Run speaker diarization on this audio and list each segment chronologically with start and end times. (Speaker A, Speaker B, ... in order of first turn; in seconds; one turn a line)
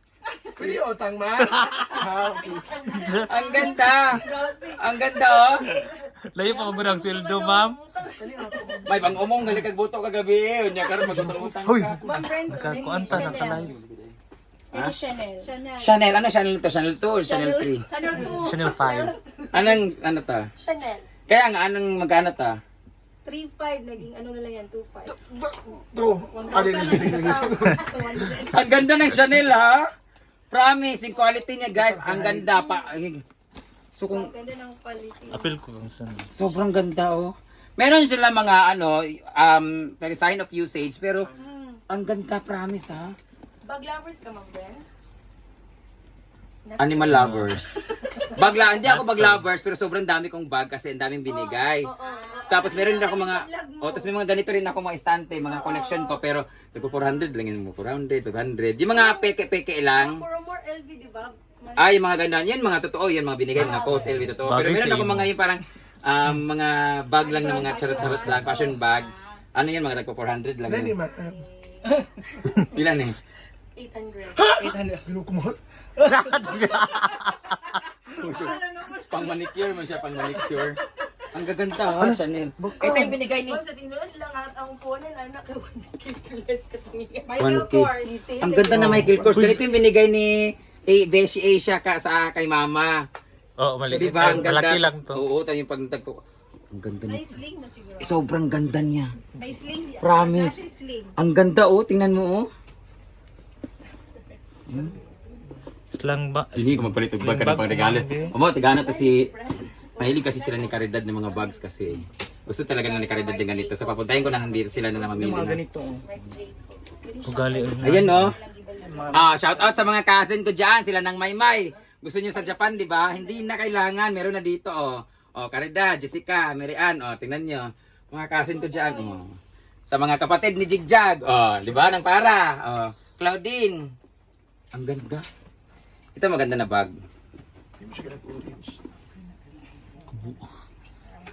Speaker A: 0.3-0.8
Speaker B: 0.6-2.9
Speaker C: 1.5-2.1
Speaker D: 2.2-4.7
Speaker A: 2.5-3.2
Speaker C: 2.9-3.3
Speaker E: 3.3-4.2
Speaker A: 4.1-4.8
Speaker E: 4.8-5.6
Speaker C: 5.7-7.8
Speaker D: 6.4-8.2
Speaker A: 6.5-8.1
Speaker B: 8.2-9.4
Speaker E: 8.8-12.0
Speaker C: 11.0-13.7
Speaker D: 12.0-13.7
Speaker A: 12.7-13.0
Speaker E: 13.0-14.1
Speaker D: 14.7-15.5
Speaker A: 15.4-15.9
Speaker E: 15.8-17.9
Speaker A: 17.2-19.6
Speaker C: 18.3-19.1
Speaker E: 19.5-20.4
Speaker D: 20.6-21.1
Speaker E: 21.3-22.6
Speaker D: 23.2-25.1
Speaker B: 25.1-27.8
Speaker A: 26.3-28.4
Speaker D: 26.4-26.9
Speaker D: 27.6-28.5
Speaker E: 28.5-29.8
Speaker E: 30.5-33.2
Speaker B: 31.8-32.3
Speaker D: 32.3-32.9
Speaker E: 33.9-34.3
Speaker D: 34.1-35.5
Speaker C: 35.3-36.3
Speaker E: 36.3-41.3
Speaker D: 41.3-41.8
Speaker E: 41.9-43.1
Speaker D: 43.6-44.9
Speaker D: 46.6-47.2
Speaker E: 46.8-47.8
Speaker C: 47.1-47.6
Speaker D: 48.0-48.7
Speaker E: 48.4-51.9
Speaker C: 48.8-49.5
Speaker D: 51.3-54.1
Speaker A: 52.0-52.8
Speaker E: 52.5-60.2
Speaker D: 55.4-56.2
Speaker D: 56.8-57.1
Speaker D: 58.9-59.3
Speaker D: 59.9-62.0
Speaker E: 61.8-71.0
Speaker D: 63.5-64.1
Speaker C: 63.6-65.3
Speaker A: 67.2-69.4
Speaker D: 67.4-67.9
Speaker B: 70.6-71.4
Speaker D: 71.1-72.7
Speaker E: 72.7-73.2
Speaker D: 73.8-74.5
Speaker B: 74.4-75.6
Speaker A: 74.6-75.1
Speaker C: 76.1-77.3
Speaker D: 78.1-79.5
Speaker E: 78.2-80.8
Speaker E: 81.3-83.6
Speaker D: 82.8-87.4
Speaker A: 87.2-88.3
Speaker E: 87.4-92.9
Speaker D: 88.0-88.9
Speaker C: 88.7-89.7
Speaker C: 93.6-95.2
Speaker E: 93.8-96.2
Speaker E: 96.7-97.3
Speaker A: 97.0-98.1
Speaker E: 98.0-99.1
Speaker A: 99.4-101.1
Speaker E: 100.0-100.6
Speaker E: 101.1-102.5
Speaker E: 104.7-104.9
Speaker C: 105.9-108.3
Speaker E: 106.5-109.2
Speaker D: 108.7-111.6
Speaker E: 110.0-115.6
Speaker D: 112.6-119.5
Speaker A: 115.2-116.0
Speaker C: 117.2-118.3
Speaker E: 117.8-118.3
Speaker A: 118.8-119.3
Speaker E: 119.1-129.3
Speaker D: 122.3-123.7
Speaker D: 128.5-129.2
Speaker E: 129.9-133.9
Speaker E: 134.7-135.2
Speaker E: 136.1-136.9
Speaker B: 137.8-138.8
Speaker C: 140.1-140.4